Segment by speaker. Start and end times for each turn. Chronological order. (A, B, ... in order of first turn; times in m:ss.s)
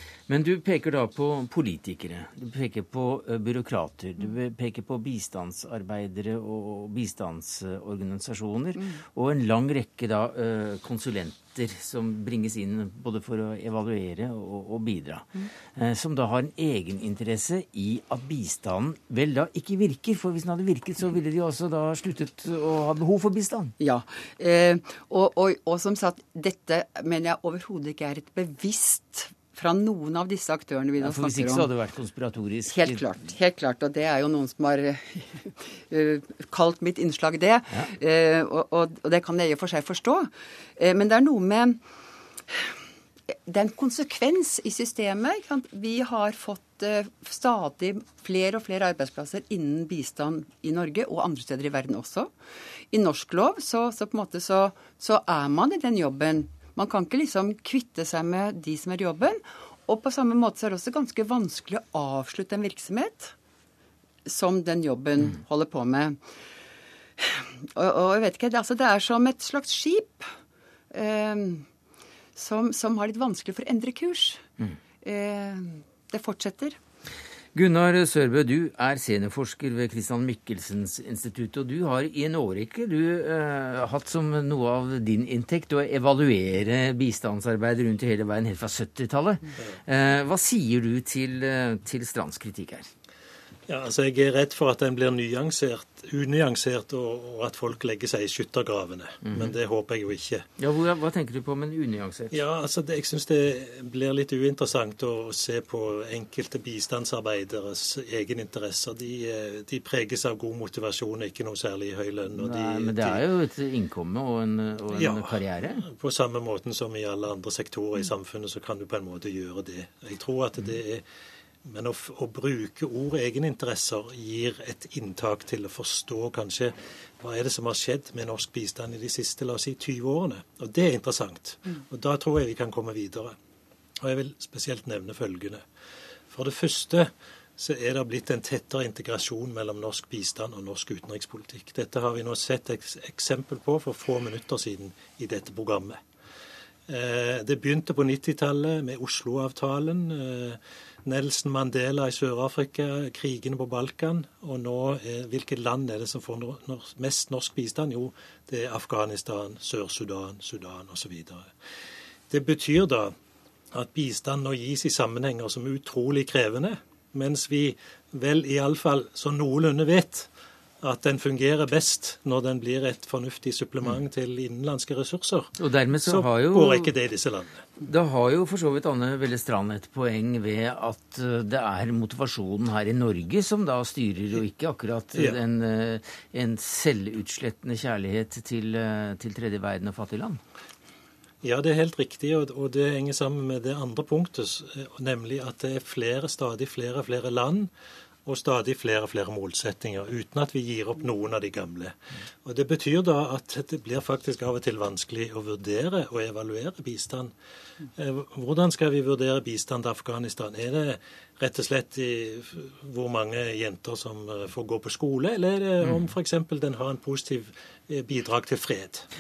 0:00.3-0:23.7 A
0:23.8-0:31.7 B
0:31.0-0:33.1 A
0:32.7-0:41.8 B
0:43.5-0:52.3 B
0:52.9-1:03.3 B
1:04.3-1:06.2 B
1:07.2-1:10.3 B
1:10.9-1:11.7 B
1:12.4-1:14.5 B
1:15.0-1:16.8 B
1:17.6-1:32.9 A
1:33.7-1:40.4 C
1:39.3-1:39.6 A
1:40.6-1:42.4 A
1:42.3-1:53.2 C
1:52.4-1:55.9 A
1:54.9-2:01.0 C
2:01.7-2:13.4 C
2:14.0-2:15.6 C
2:16.3-2:26.0 C
2:26.9-2:41.5 C
2:42.3-2:43.1 C
2:43.7-2:50.3 C
2:50.8-2:57.7 C
2:55.6-2:56.9 A
2:57.9-3:10.4 A
3:05.1-3:05.4 C
3:11.4-3:17.7 C
3:18.3-3:21.9 C
3:22.4-3:27.3 C
3:28.0-3:39.1 C